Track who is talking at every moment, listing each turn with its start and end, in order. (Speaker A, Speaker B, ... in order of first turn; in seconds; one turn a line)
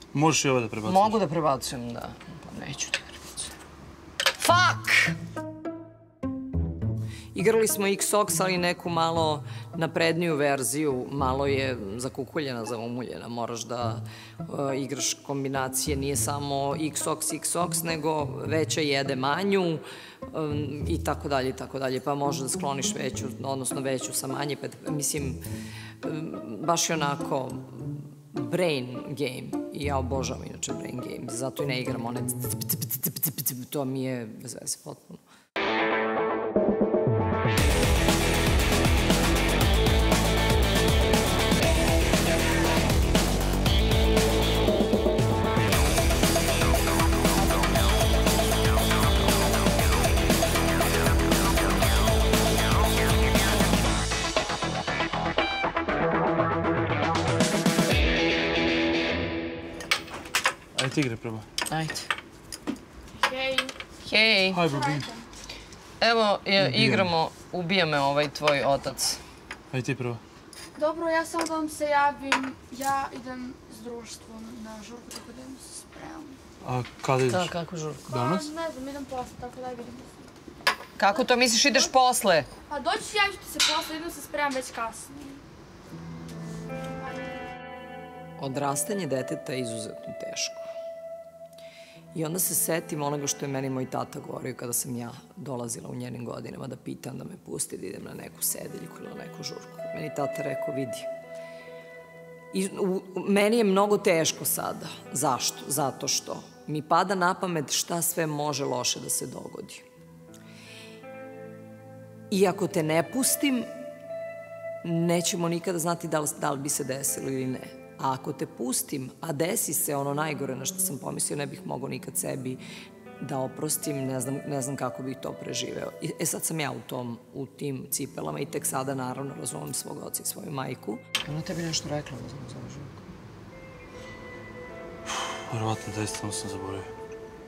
Speaker A: 0.1-0.7
Speaker B: 0.8-3.5
Speaker B: 4.3-5.2
Speaker B: 7.3-25.4
Speaker B: 26.0-35.2
Speaker A: 60.7-61.4
Speaker B: 61.7-62.1
Speaker C: 63.1-63.8
Speaker B: 64.0-64.6
Speaker C: 64.6-65.2
Speaker B: 66.0-69.2
Speaker A: 69.7-70.1
Speaker C: 70.8-76.4
Speaker B: 77.3-78.1
Speaker C: 78.1-80.3
Speaker B: 81.0-82.5
Speaker C: 81.1-81.9
Speaker C: 82.7-85.4
Speaker C: 87.0-87.4
Speaker B: 88.4-90.6
Speaker B: 92.1-101.1
Speaker B: 102.5-109.8
Speaker B: 112.3-113.7
Speaker B: 114.8-122.6
Speaker B: 123.2-133.1
Speaker A: 135.4-136.9